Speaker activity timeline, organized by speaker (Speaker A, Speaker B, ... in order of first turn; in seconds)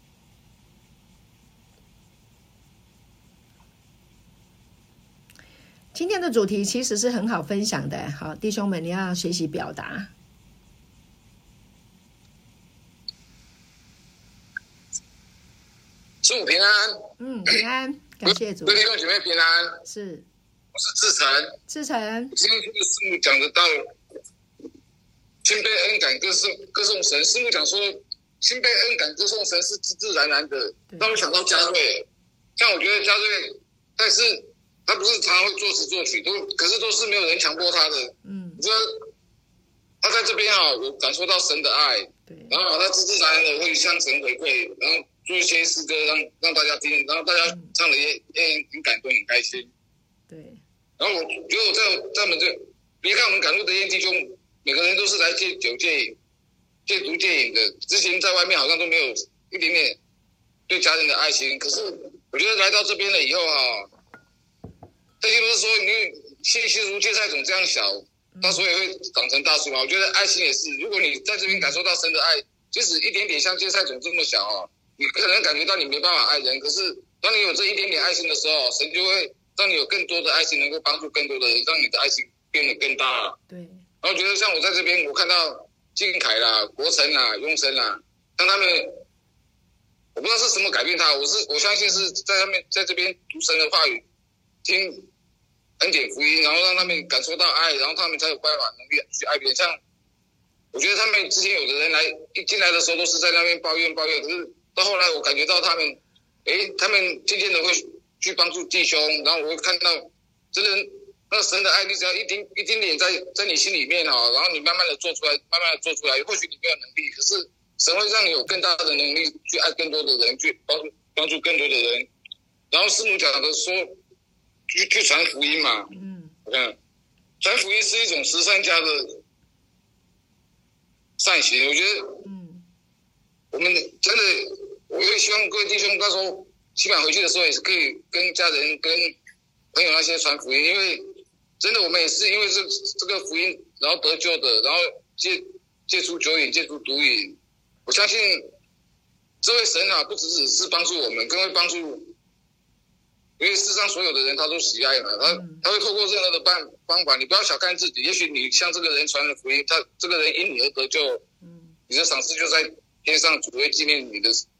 Speaker A: 5.9-10.1, 17.2-18.8, 19.9-20.3, 21.7-22.3, 30.9-31.1, 38.2-38.6, 42.3-42.6, 50.3-50.6, 68.3-68.6, 83.5-83.8, 125.9-126.3, 132.2-132.6, 155.3-155.6, 161.4-161.7
Speaker B: 16.2-17.1, 18.3-19.8, 20.8-21.6, 22.3-23.9, 25.4-39.1, 40.0-49.7, 51.0-56.2, 56.9-60.0, 60.7-63.9, 65.2-83.4, 84.0-89.0, 90.2-94.0, 94.6-95.1, 95.8-99.8, 100.7-122.1, 122.7-124.0, 124.7-125.9, 126.5-126.8, 127.4-129.2, 131.2-132.2, 133.5-139.2, 139.7-148.5, 149.4-152.1, 153.4-161.2, 161.9-164.4